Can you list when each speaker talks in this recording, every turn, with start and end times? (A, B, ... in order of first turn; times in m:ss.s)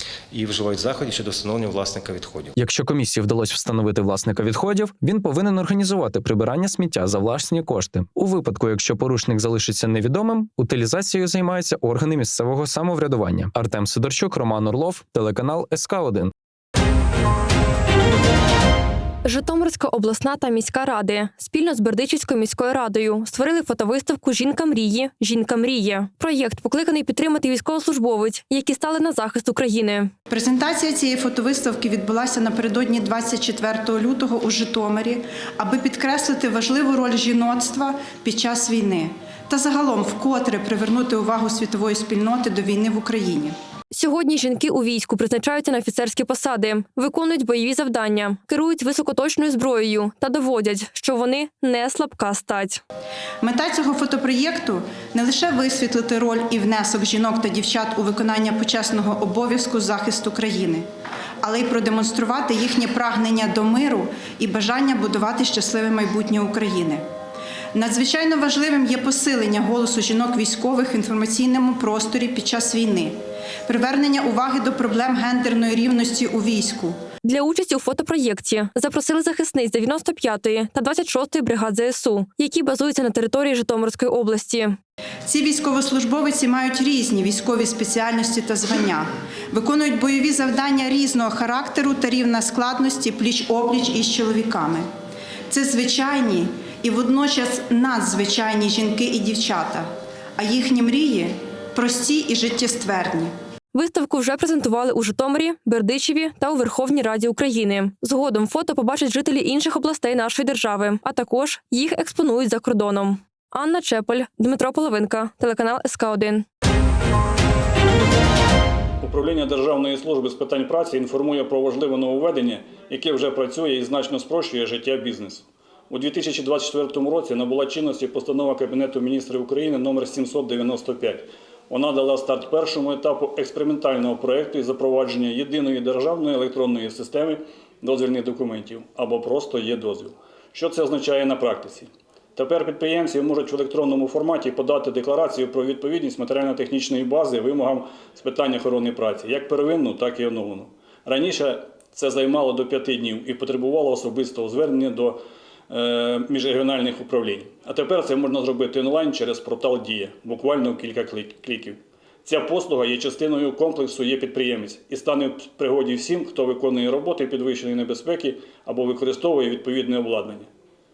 0:00.3-0:02.6 A
0:02.6-0:16.3 B
0:19.2-0:30.1 C
0:30.3-0:43.6 D
0:43.9-0:52.8 C
0:53.4-1:00.8 D
1:01.4-1:07.0 D
1:07.7-1:13.2 D
1:13.7-1:17.0 D
1:17.2-1:24.8 C
1:25.3-1:34.9 D
1:35.5-1:43.3 D
1:43.7-1:56.5 C
1:59.0-2:50.5 E